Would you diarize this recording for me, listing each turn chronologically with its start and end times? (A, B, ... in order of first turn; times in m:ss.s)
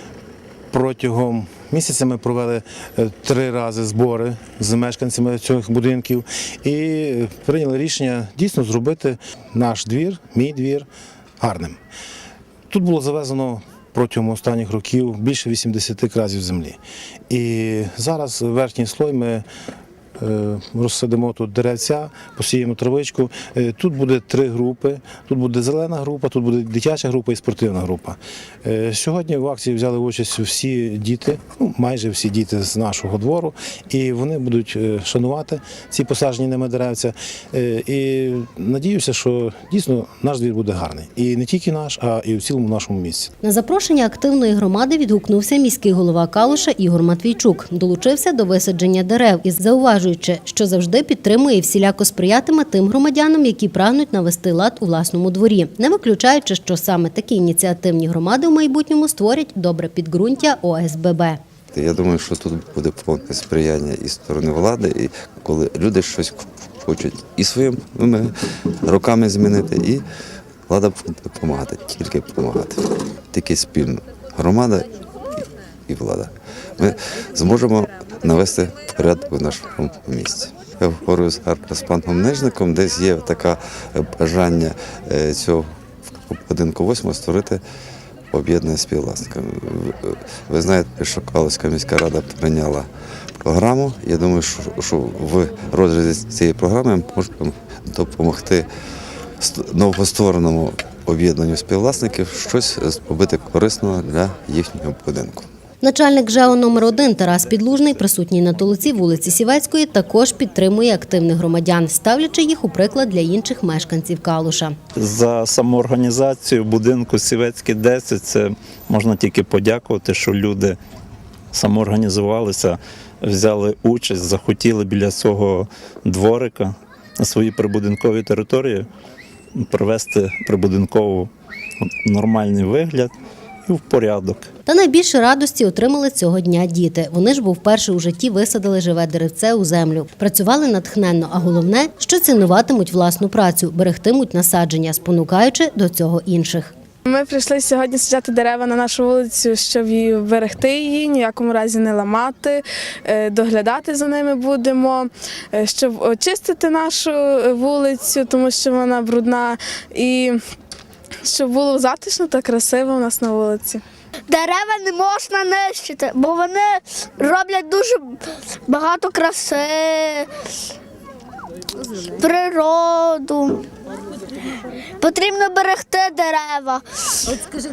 0:00.7-0:10.9 A
0:11.4-0:11.8 A
0:12.7-0:16.8 A
0:17.3-0:19.5 A
0:20.2-0:43.3 A
0:43.4-1:01.4 B
1:01.7-1:08.3 C
1:08.8-1:10.0 C
1:10.7-1:14.9 C
1:15.9-1:27.6 C
1:28.3-1:32.9 C
1:33.4-1:38.7 C
1:39.4-1:45.5 C
1:45.8-1:54.8 B
1:55.0-2:00.8 D
2:01.5-2:08.9 D
2:09.6-2:11.3 D
2:12.0-2:13.1 D
2:13.7-2:14.5 D
2:14.7-2:26.7 B
2:27.1-2:40.4 E
2:41.2-2:43.8 E
2:44.3-2:50.3 F
2:51.8-2:53.7 F
2:55.0-2:57.4 F